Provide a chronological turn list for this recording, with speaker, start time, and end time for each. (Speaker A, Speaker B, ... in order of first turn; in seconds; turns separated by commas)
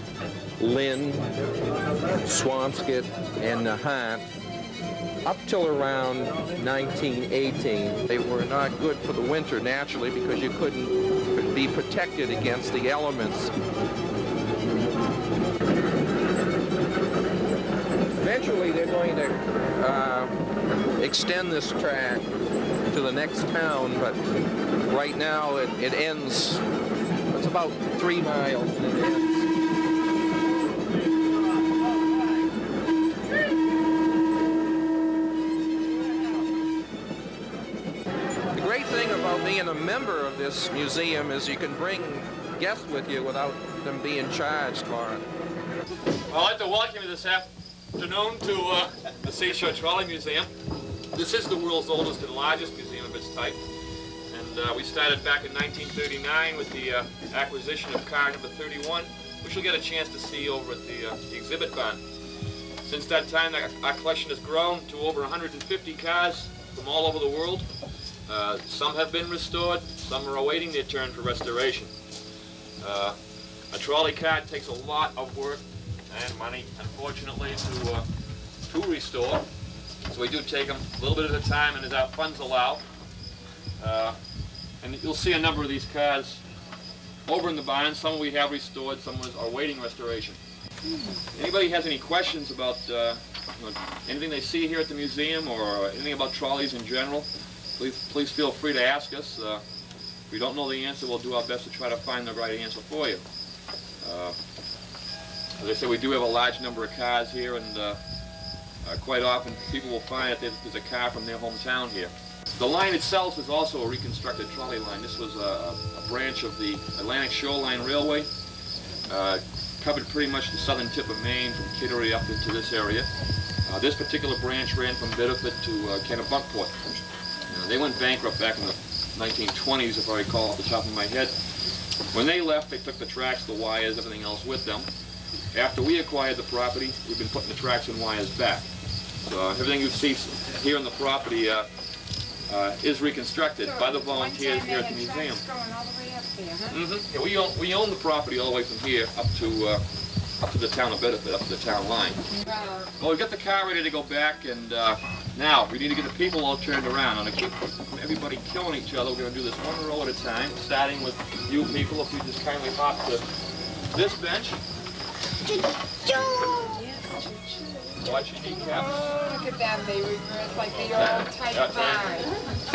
Speaker A: 0.6-1.3, Speaker A: 2.2-4.3, Speaker A: 5.2-13.5, Speaker A: 18.2-20.4, Speaker A: 21.0-22.3, Speaker A: 22.9-24.2, Speaker A: 24.8-26.6, Speaker A: 27.3-29.4, Speaker A: 38.5-45.2, Speaker B: 46.3-50.5, Speaker B: 51.1-53.6, Speaker B: 54.3-62.0, Speaker B: 62.8-67.7, Speaker B: 68.3-71.9, Speaker B: 72.8-73.2, Speaker B: 73.7-78.0, Speaker B: 78.7-79.5, Speaker B: 80.0-82.8, Speaker B: 83.8-84.2, Speaker B: 84.8-86.4, Speaker B: 87.2-90.4, Speaker B: 91.3-99.6, Speaker B: 100.3-103.2, Speaker B: 104.0-104.3, Speaker B: 105.6-108.0, Speaker B: 108.8-118.3, Speaker B: 119.1-123.1, Speaker B: 123.7-126.8, Speaker B: 127.5-131.3, Speaker B: 132.1-134.9, Speaker B: 135.5-138.7, Speaker B: 139.2-141.7, Speaker B: 142.5-145.4, Speaker C: 143.7-146.8, Speaker B: 146.7-149.8, Speaker B: 150.4-152.2, Speaker C: 152.4-152.8, Speaker B: 153.0-163.2, Speaker B: 163.9-164.6, Speaker B: 168.0-169.2, Speaker C: 169.2-172.3, Speaker B: 170.8-172.2